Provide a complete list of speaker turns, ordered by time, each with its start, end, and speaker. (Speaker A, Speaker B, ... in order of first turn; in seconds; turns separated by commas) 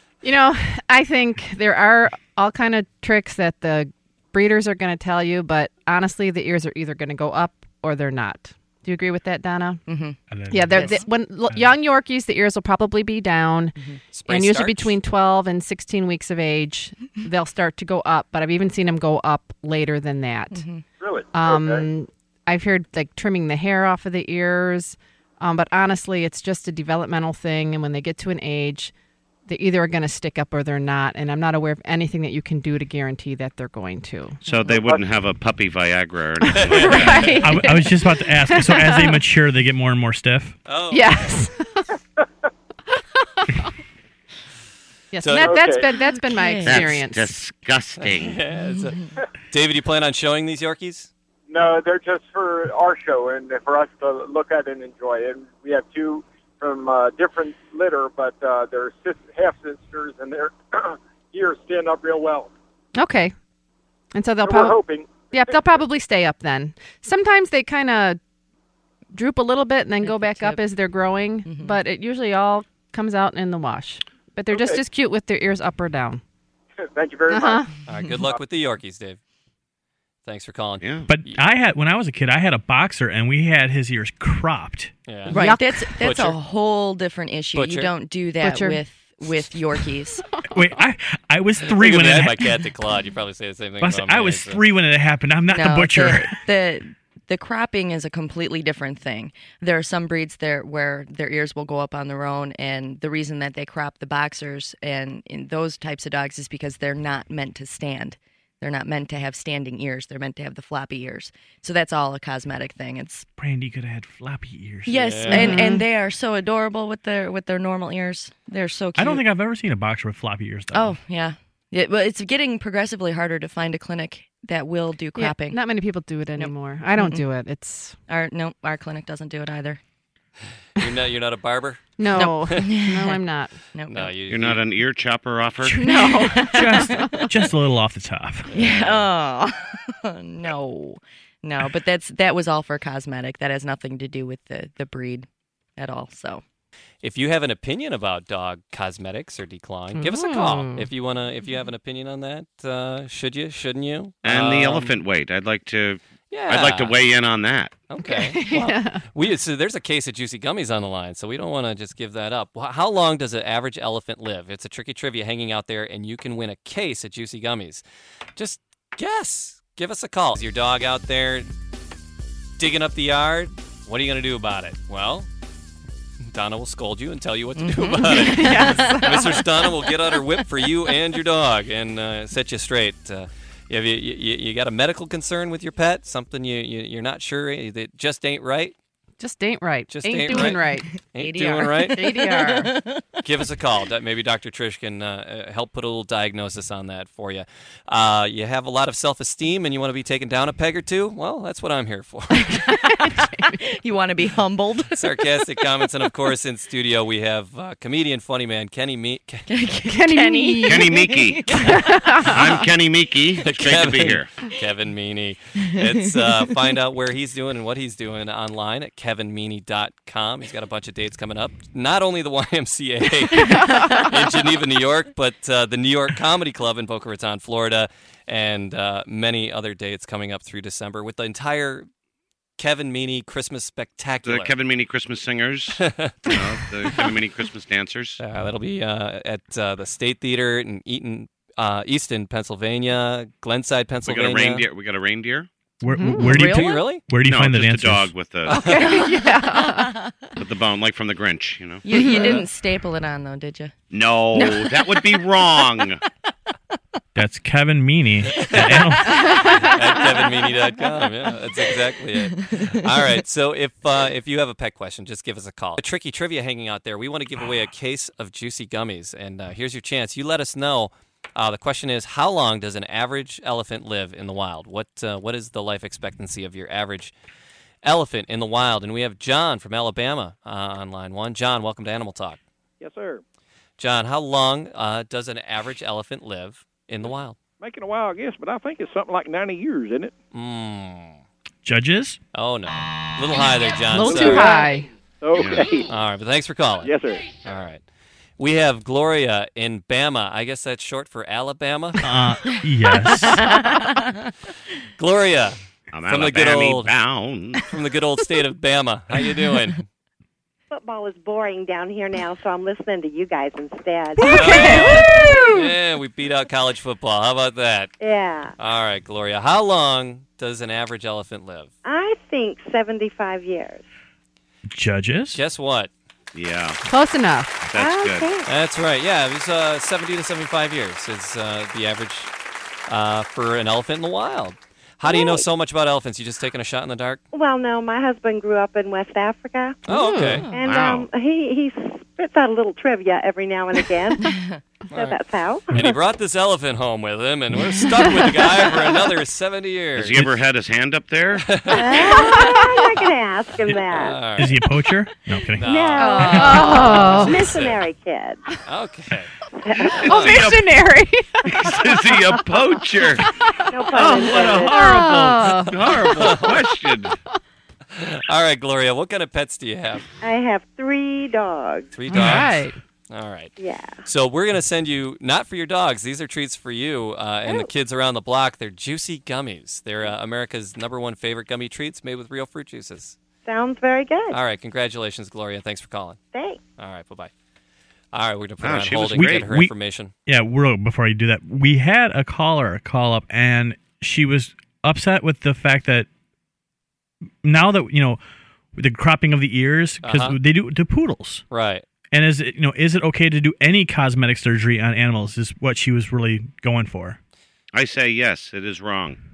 Speaker A: 0.2-9.8, Speaker B: 9.9-10.2, Speaker C: 10.3-11.8, Speaker A: 10.5-13.8, Speaker D: 14.1-14.9, Speaker A: 14.3-20.6, Speaker B: 20.5-20.9, Speaker E: 21.0-21.9, Speaker A: 21.3-28.9, Speaker A: 29.5-34.4, Speaker F: 34.4-37.4, Speaker A: 36.5-39.2, Speaker D: 36.5-37.4, Speaker C: 37.4-40.6, Speaker D: 40.7-41.3, Speaker A: 40.9-41.9, Speaker A: 43.2-43.7, Speaker A: 45.1-47.3, Speaker D: 45.2-45.7, Speaker E: 45.4-45.9, Speaker B: 46.2-46.9, Speaker F: 46.6-48.4, Speaker D: 48.0-51.1, Speaker B: 48.5-49.1, Speaker E: 51.5-62.5, Speaker A: 63.0-63.4, Speaker A: 64.1-64.8, Speaker E: 64.4-65.6, Speaker A: 65.3-68.2, Speaker A: 69.1-76.2, Speaker B: 70.0-70.7, Speaker B: 71.5-71.8, Speaker E: 74.5-74.8, Speaker E: 76.8-77.7, Speaker A: 77.3-77.7, Speaker D: 77.9-79.2, Speaker D: 80.2-81.4, Speaker F: 80.8-81.1, Speaker C: 81.1-84.9, Speaker D: 85.1-85.4, Speaker B: 85.3-90.4, Speaker A: 85.3-86.1, Speaker D: 86.0-86.4, Speaker D: 87.5-87.9, Speaker A: 88.4-88.8, Speaker C: 90.5-92.6, Speaker D: 91.6-94.6, Speaker C: 93.8-96.4, Speaker B: 95.5-113.3, Speaker C: 113.4-115.1, Speaker B: 114.9-119.2, Speaker D: 115.0-115.6, Speaker A: 115.3-115.8, Speaker C: 119.0-121.0, Speaker B: 120.7-125.6, Speaker A: 125.2-128.0, Speaker B: 126.4-127.2, Speaker B: 128.1-129.8, Speaker D: 130.8-132.7, Speaker A: 132.0-133.5, Speaker B: 132.1-133.2, Speaker B: 133.7-134.2, Speaker D: 133.9-134.7, Speaker F: 134.3-135.9, Speaker A: 135.7-137.3, Speaker B: 135.8-137.3, Speaker C: 136.5-138.5, Speaker D: 138.5-139.1, Speaker B: 138.5-146.4, Speaker D: 147.0-154.9, Speaker A: 149.9-150.9, Speaker F: 154.2-157.7, Speaker D: 156.3-157.0, Speaker D: 157.9-167.8, Speaker A: 158.0-159.0, Speaker D: 168.4-171.5, Speaker D: 172.6-175.3, Speaker D: 176.3-188.8, Speaker B: 177.6-181.0, Speaker A: 178.1-179.4, Speaker A: 189.2-190.9, Speaker D: 189.9-192.2, Speaker B: 190.3-193.2, Speaker A: 191.8-192.7, Speaker D: 193.2-202.7, Speaker B: 202.4-206.1, Speaker A: 202.7-203.6, Speaker D: 205.0-209.5, Speaker B: 209.5-212.2, Speaker A: 209.9-211.0, Speaker F: 210.6-214.3, Speaker A: 211.6-212.6, Speaker D: 213.4-231.9, Speaker B: 215.6-216.7, Speaker B: 223.4-224.2, Speaker D: 232.6-234.5, Speaker F: 234.2-238.2, Speaker D: 235.8-236.3, Speaker D: 238.2-244.7, Speaker F: 244.1-245.5, Speaker C: 245.8-248.1, Speaker A: 245.9-246.3, Speaker B: 246.2-246.9, Speaker D: 246.3-247.0, Speaker F: 247.2-248.7, Speaker D: 248.5-248.9, Speaker A: 248.5-250.0, Speaker B: 248.9-250.3, Speaker F: 250.4-252.1, Speaker B: 251.8-253.8, Speaker A: 251.9-252.4, Speaker F: 253.9-256.0, Speaker B: 254.3-255.8, Speaker C: 257.1-259.5, Speaker D: 258.4-277.1, Speaker B: 258.6-262.9, Speaker A: 259.3-259.6, Speaker D: 277.8-282.4, Speaker G: 282.8-283.2, Speaker D: 283.8-287.4, Speaker G: 287.6-290.1, Speaker D: 290.3-291.2, Speaker C: 291.6-292.2, Speaker D: 292.3-294.5, Speaker A: 293.9-294.9, Speaker G: 294.1-295.9, Speaker F: 295.4-295.6, Speaker D: 295.9-297.8, Speaker G: 296.8-297.4, Speaker D: 298.4-302.0, Speaker C: 302.0-303.5, Speaker B: 302.5-304.3, Speaker D: 305.0-306.9, Speaker F: 305.9-307.6, Speaker D: 307.7-309.9, Speaker H: 310.7-314.9, Speaker A: 314.2-315.7, Speaker D: 314.2-317.9, Speaker H: 318.0-318.6, Speaker D: 318.6-321.7, Speaker H: 321.8-323.8, Speaker C: 324.7-325.4, Speaker D: 325.3-325.9, Speaker F: 326.3-326.8, Speaker A: 326.9-327.7, Speaker F: 327.7-328.3, Speaker H: 327.7-328.5, Speaker D: 328.5-332.3, Speaker D: 332.9-337.2, Speaker H: 335.1-335.4, Speaker H: 337.3-339.9, Speaker A: 339.9-340.5, Speaker D: 339.9-340.5, Speaker H: 340.5-344.4, Speaker F: 340.6-341.1, Speaker B: 344.2-344.6, Speaker D: 344.9-345.2, Speaker H: 344.9-345.9, Speaker D: 345.7-350.3, Speaker F: 349.9-351.6, Speaker D: 351.4-352.1, Speaker H: 351.7-354.3, Speaker A: 351.9-352.8, Speaker D: 353.9-354.6, Speaker C: 354.3-355.8, Speaker D: 355.6-357.8, Speaker H: 355.6-358.5, Speaker A: 356.0-357.4, Speaker B: 356.3-356.5, Speaker D: 358.6-359.3, Speaker H: 359.6-360.4, Speaker F: 359.9-360.7, Speaker A: 360.0-361.7, Speaker F: 361.4-363.4, Speaker H: 363.7-365.1, Speaker F: 363.9-367.2, Speaker A: 364.0-366.0, Speaker D: 366.0-366.6, Speaker D: 367.9-370.1, Speaker H: 370.2-371.9, Speaker D: 371.9-372.6, Speaker A: 372.1-372.8, Speaker D: 373.1-373.5, Speaker H: 373.6-374.0, Speaker D: 374.1-383.2, Speaker H: 383.4-384.4, Speaker D: 384.3-386.2, Speaker H: 386.3-386.6, Speaker D: 386.8-387.3, Speaker D: 388.1-390.1, Speaker F: 388.6-389.5, Speaker C: 388.9-389.7, Speaker C: 390.3-396.1, Speaker C: 397.4-398.2, Speaker C: 398.8-401.4, Speaker D: 400.0-400.4, Speaker D: 401.5-401.9, Speaker C: 402.1-407.2, Speaker F: 407.7-409.2